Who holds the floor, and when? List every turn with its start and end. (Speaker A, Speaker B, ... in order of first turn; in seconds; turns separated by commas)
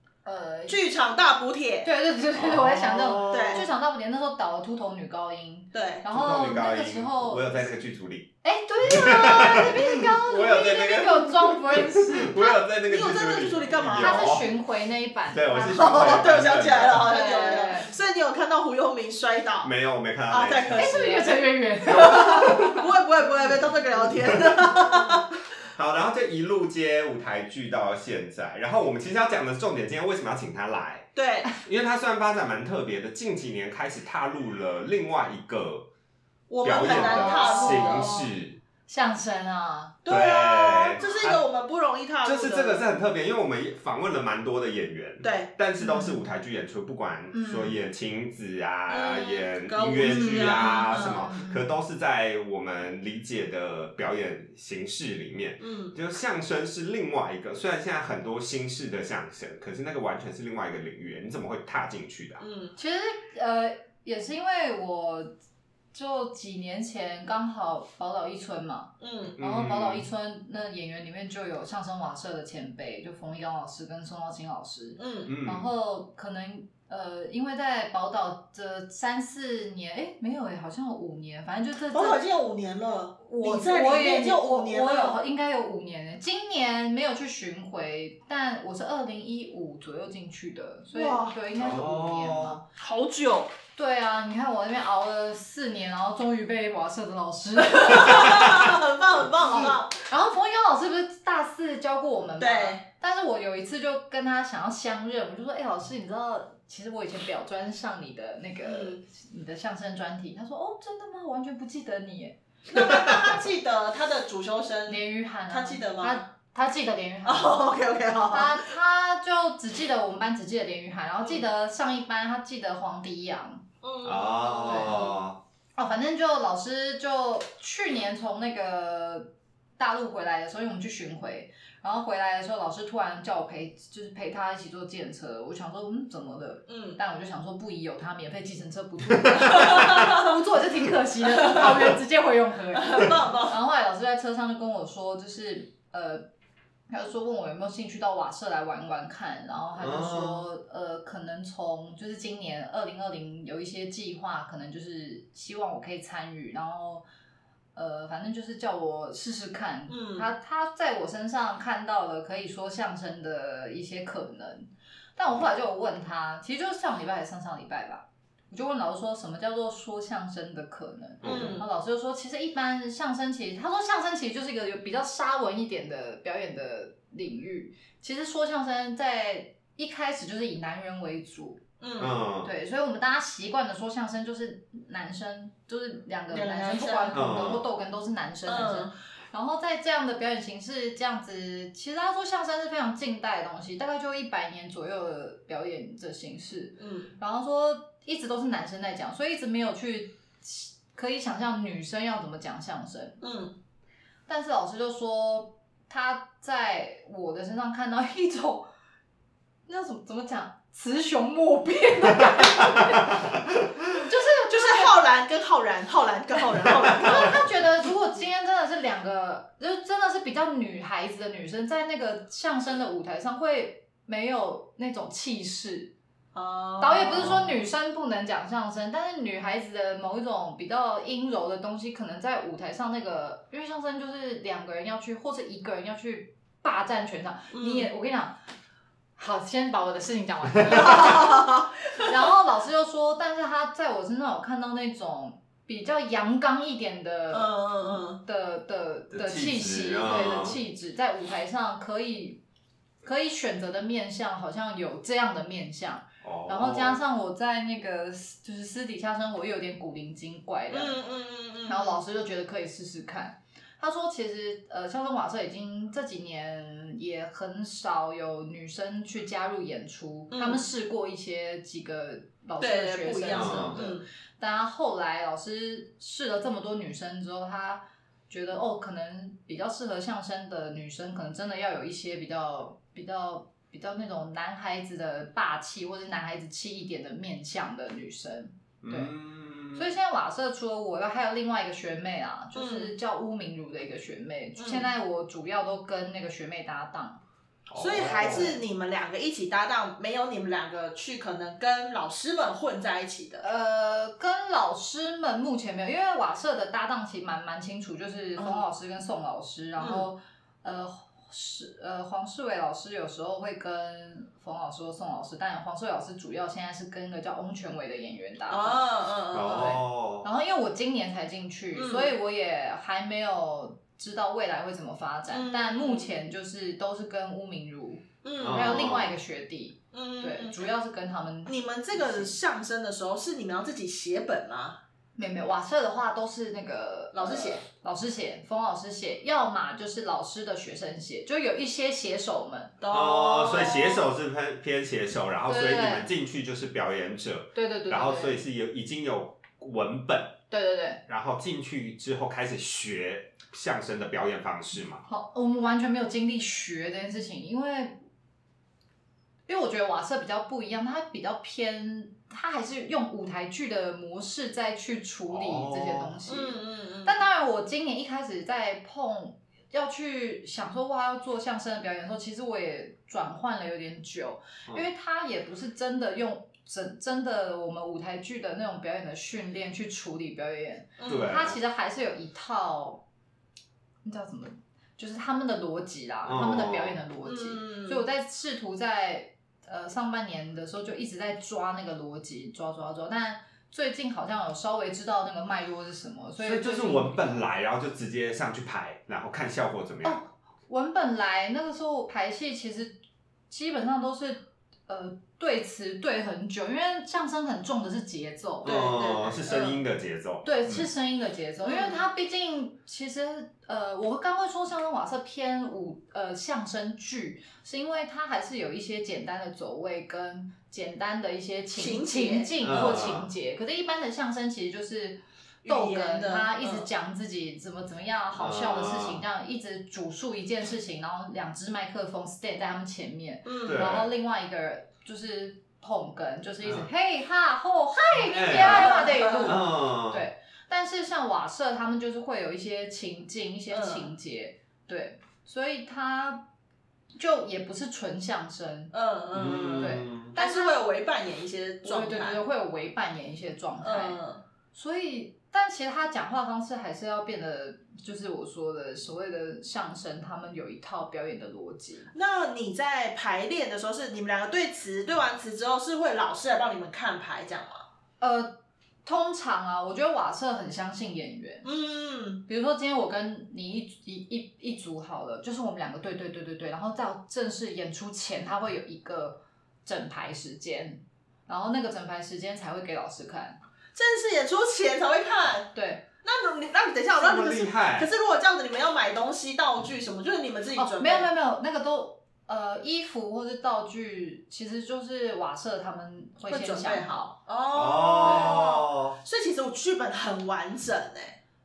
Speaker A: 0.2-0.8, Speaker B: 0.7-1.9, Speaker A: 1.8-7.6, Speaker C: 2.3-3.7, Speaker B: 3.3-3.6, Speaker B: 5.7-6.0, Speaker C: 6.1-8.3, Speaker A: 8.4-12.6, Speaker C: 8.9-14.5, Speaker B: 12.9-14.3, Speaker A: 14.0-16.3, Speaker C: 15.3-17.1, Speaker B: 15.7-19.7, Speaker A: 17.0-17.9, Speaker C: 19.6-20.9, Speaker B: 20.3-25.2, Speaker A: 20.8-22.8, Speaker C: 21.9-22.5, Speaker C: 25.7-35.9, Speaker B: 31.1-31.5, Speaker B: 36.5-38.1, Speaker C: 36.6-38.6, Speaker A: 36.9-38.3, Speaker A: 38.9-40.0, Speaker B: 40.0-42.9, Speaker C: 40.1-41.4, Speaker C: 42.2-62.4, Speaker B: 45.2-45.5, Speaker A: 45.8-46.2, Speaker A: 47.3-47.8, Speaker B: 48.9-51.3, Speaker A: 50.1-51.6, Speaker B: 55.6-55.9, Speaker B: 62.4-62.7, Speaker A: 62.8-65.3, Speaker A: 65.9-82.3, Speaker B: 69.0-69.4, Speaker C: 69.4-70.0, Speaker B: 75.0-75.3, Speaker C: 75.3-75.7, Speaker B: 81.9-85.2, Speaker A: 83.2-92.6, Speaker B: 90.9-91.3, Speaker C: 91.5-92.6, Speaker B: 92.8-93.5, Speaker A: 93.8-98.7, Speaker B: 97.6-100.0, Speaker A: 99.5-112.4, Speaker B: 102.4-102.8, Speaker B: 108.6-109.0, Speaker B: 112.7-116.2, Speaker A: 114.9-117.7, Speaker B: 117.2-118.7, Speaker A: 118.3-123.6, Speaker B: 123.8-125.2, Speaker C: 124.0-125.4, Speaker A: 124.6-125.1, Speaker A: 125.8-146.3, Speaker B: 136.7-137.0, Speaker B: 139.5-140.3, Speaker B: 141.3-141.7, Speaker B: 142.7-143.6, Speaker A: 146.9-157.1, Speaker C: 149.8-150.4, Speaker A: 157.7-181.6, Speaker B: 159.9-160.3, Speaker C: 171.2-171.6, Speaker B: 171.2-171.7, Speaker B: 181.8-182.2, Speaker C: 182.0-182.5, Speaker A: 182.4-203.2, Speaker B: 186.3-187.2, Speaker C: 187.1-187.6, Speaker B: 188.4-188.9, Speaker B: 196.8-197.1, Speaker B: 203.2-203.5, Speaker A: 204.3-208.7, Speaker A: 209.7-215.1, Speaker C: 212.3-213.4, Speaker B: 214.5-217.4, Speaker A: 217.0-225.9, Speaker C: 217.0-217.4, Speaker B: 226.3-227.3, Speaker A: 226.8-238.4, Speaker C: 227.2-227.5, Speaker B: 237.5-237.9, Speaker A: 239.2-252.4, Speaker B: 240.6-242.1, Speaker B: 247.3-248.2, Speaker C: 249.1-250.6, Speaker A: 253.0-261.0, Speaker C: 256.2-257.0, Speaker B: 260.7-262.0, Speaker A: 261.6-289.1, Speaker B: 270.3-270.6, Speaker B: 272.6-274.0, Speaker C: 273.3-273.8, Speaker C: 288.8-289.9, Speaker A: 289.7-297.2, Speaker B: 292.5-292.9, Speaker B: 294.6-294.9, Speaker C: 297.7-298.6, Speaker B: 297.7-303.4, Speaker A: 303.4-332.4, Speaker B: 308.4-308.7, Speaker B: 309.8-310.1, Speaker B: 318.5-319.8, Speaker C: 319.3-320.3, Speaker B: 321.7-322.1, Speaker B: 325.3-326.1, Speaker B: 328.2-328.9, Speaker C: 328.4-329.1, Speaker B: 329.9-330.6, Speaker B: 331.4-334.8, Speaker A: 335.1-342.7, Speaker B: 337.1-337.6, Speaker B: 342.8-344.0, Speaker C: 342.9-350.4, Speaker A: 345.4-346.1, Speaker A: 347.5-348.4, Speaker A: 350.5-351.0, Speaker C: 351.1-355.0, Speaker A: 355.1-358.0, Speaker A: 359.5-383.0, Speaker C: 365.3-366.3, Speaker B: 366.3-367.2, Speaker B: 381.0-381.3, Speaker C: 381.1-381.6, Speaker A: 384.0-397.4, Speaker C: 386.2-387.0, Speaker B: 387.2-388.0, Speaker C: 396.4-400.2, Speaker A: 400.0-403.0, Speaker A: 403.5-409.5, Speaker B: 408.6-409.8, Speaker C: 408.6-410.9, Speaker A: 410.4-446.4, Speaker B: 411.6-412.0, Speaker B: 421.7-422.5, Speaker C: 422.6-423.3, Speaker B: 425.6-426.9, Speaker C: 428.3-429.2, Speaker B: 433.4-433.9, Speaker C: 433.6-434.1, Speaker C: 436.6-436.9, Speaker C: 438.2-440.3, Speaker B: 438.5-439.6, Speaker B: 443.7-444.1, Speaker A: 447.1-448.9, Speaker B: 448.9-452.4, Speaker C: 449.3-450.4, Speaker A: 449.8-450.8, Speaker A: 451.8-454.2, Speaker B: 453.8-454.4, Speaker A: 454.7-462.1, Speaker B: 462.1-467.8, Speaker A: 468.2-471.6, Speaker B: 471.6-472.4, Speaker A: 472.4-483.6, Speaker B: 483.9-485.7, Speaker A: 485.7-486.0, Speaker B: 486.2-491.3, Speaker C: 487.2-488.1, Speaker A: 490.8-497.3, Speaker B: 496.5-501.4, Speaker C: 497.7-499.2, Speaker A: 498.2-498.6